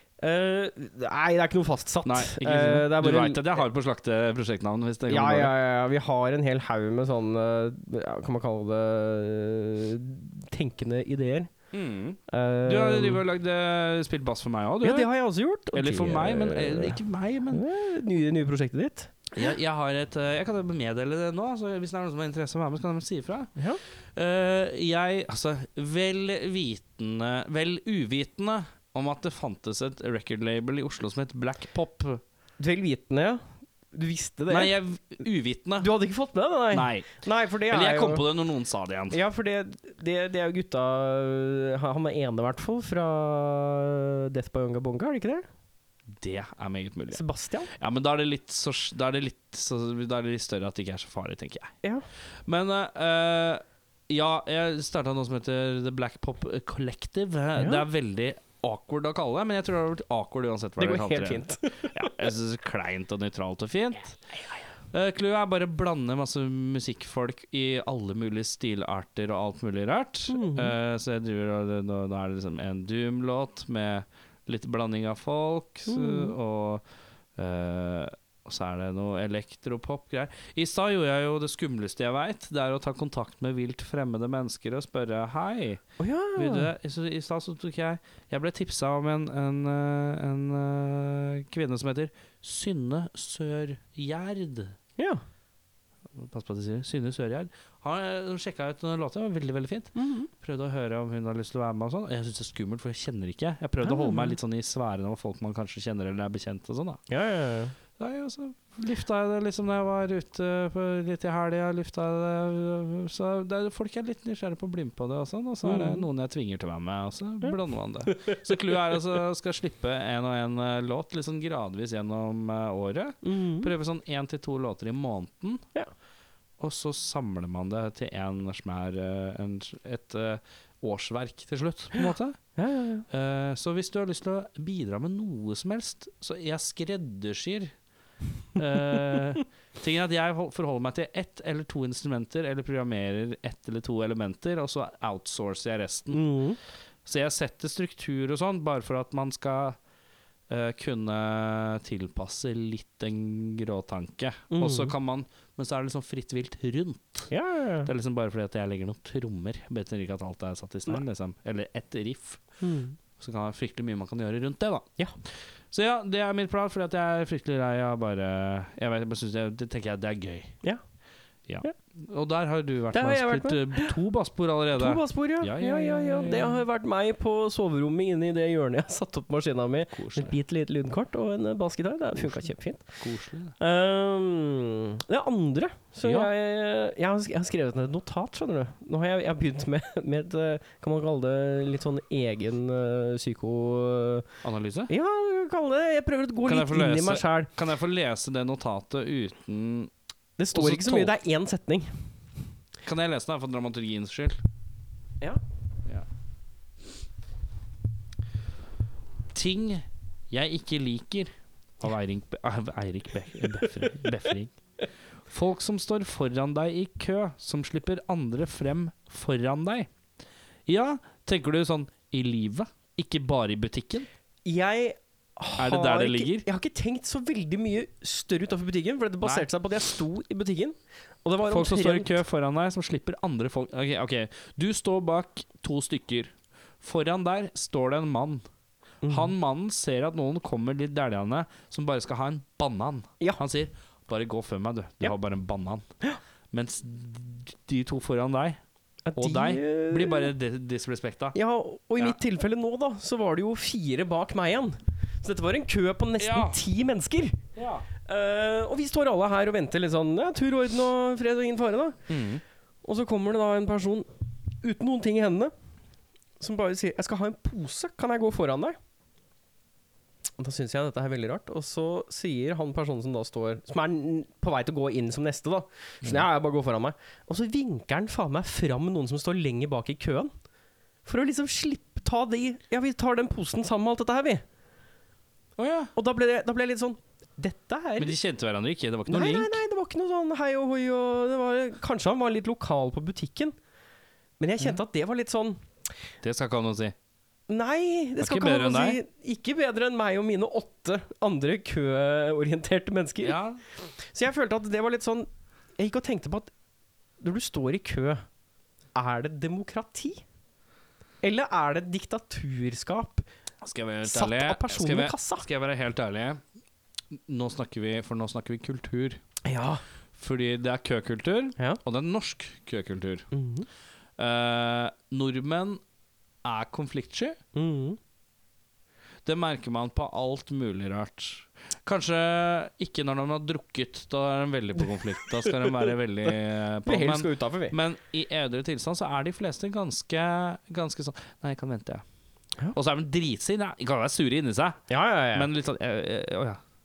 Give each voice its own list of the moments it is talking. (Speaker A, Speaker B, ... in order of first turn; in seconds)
Speaker A: 0.2-3.6, 5.1-11.5, 12.3-13.2, 14.8-17.0, 17.5-19.1, 32.6-34.7, 35.8-38.2, 39.1-45.5, 47.1-47.7, 57.6-57.8, 60.8-62.1, 70.3-70.7, 75.9-76.3, 86.0-86.7, 100.0-100.3, 103.8-104.4, 107.1-107.7, 115.6-116.0, 118.1-118.8, 123.2-123.7, 132.6-133.1, 146.1-146.6, 154.5-154.9, 157.3-157.9, 162.6-163.0, 172.9-173.9, 174.8-182.8, 183.6-194.3, 194.9-197.5, 200.4-202.0, 224.5-232.2, 239.0-239.3, 249.1-250.3, 251.3-257.4, 258.1-262.0, 262.8-264.1, 264.6-265.5, 266.4-268.8, 270.4-280.3, 281.1-284.4, 285.9-288.1, 289.1-293.6, 294.4-295.6, 297.5-303.4, 304.0-306.5, 307.2-308.2, 308.9-310.2, 311.2-313.3, 314.1-315.5, 319.4-319.8, 323.3-323.7, 327.6-328.0, 336.9-337.8, 344.9-345.5
Speaker B: 2.0-5.5, 11.7-15.1, 15.7-17.6, 19.3-23.5, 24.1-32.2, 34.5-35.9, 36.7-39.2, 46.1-51.7, 52.5-64.2, 64.9-76.8, 77.4-85.8, 86.3-94.8, 96.1-107.0, 108.0-125.6, 126.6-132.4, 133.1-137.7, 138.6-146.2, 147.1-149.8, 150.5-157.3, 157.8-162.4, 163.2-164.9, 165.7-170.6, 171.5-176.6, 179.9-180.4, 182.2-183.6, 186.0-186.3, 194.4-194.9, 196.4-199.9, 200.5-201.2, 202.8-204.4, 209.3-214.6, 215.3-219.9, 220.7-224.1, 225.6-226.5, 229.2-229.5, 231.4-238.5, 239.1-245.9, 246.5-248.6, 249.2-251.4, 256.2-256.6, 257.6-257.9, 262.1-262.4, 285.6-285.9, 288.0-289.6, 296.2-296.9, 298.2-299.0, 303.2-303.6, 313.6-316.4, 317.1-319.2, 320.1-323.3, 324.2-325.8, 326.4-327.4, 329.2-342.0, 342.7-344.8, 345.3-346.6